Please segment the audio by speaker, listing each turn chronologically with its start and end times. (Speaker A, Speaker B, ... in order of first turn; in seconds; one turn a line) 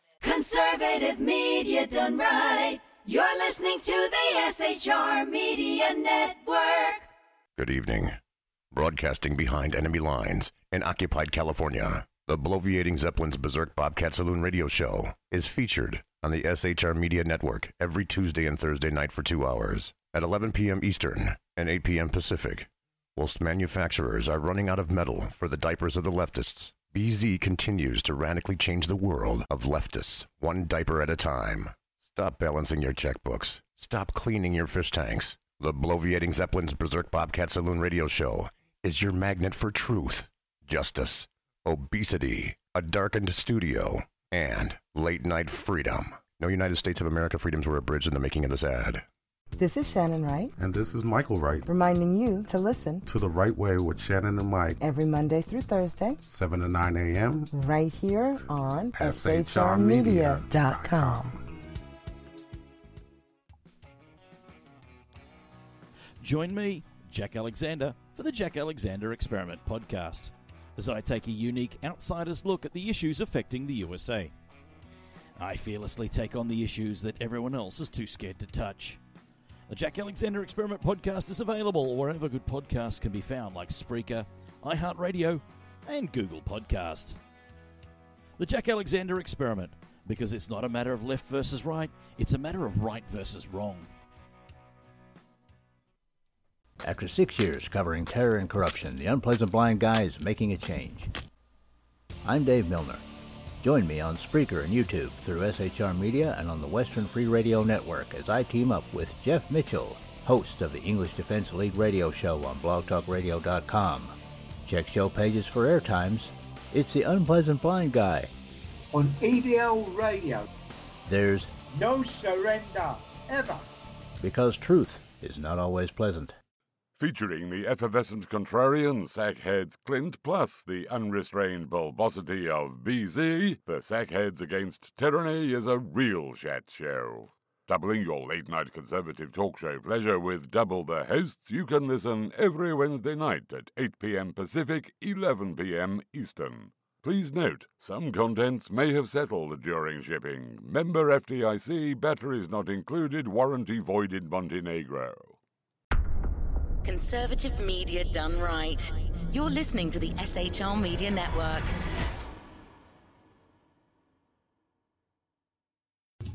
Speaker A: 0.2-7.1
Speaker B: 7.6-8.2
Speaker B: 8.7-49.0
Speaker C: 49.6-50.5
Speaker D: 50.6-51.7
Speaker C: 51.7-53.0
Speaker D: 53.1-54.8
Speaker C: 54.8-56.2
Speaker D: 56.2-57.5
Speaker C: 57.5-61.3
Speaker D: 58.5-61.4
Speaker E: 66.2-74.3
Speaker E: 75.4-79.0
Speaker E: 79.7-87.2
Speaker E: 88.4-93.9
Speaker F: 96.8-101.1
Speaker F: 102.2-103.0
Speaker F: 103.6-118.3
Speaker G: 118.9-120.5
Speaker F: 121.1-121.5
Speaker G: 121.7-123.6
Speaker F: 124.2-126.3
Speaker H: 127.0-155.4
Speaker I: 156.8-161.7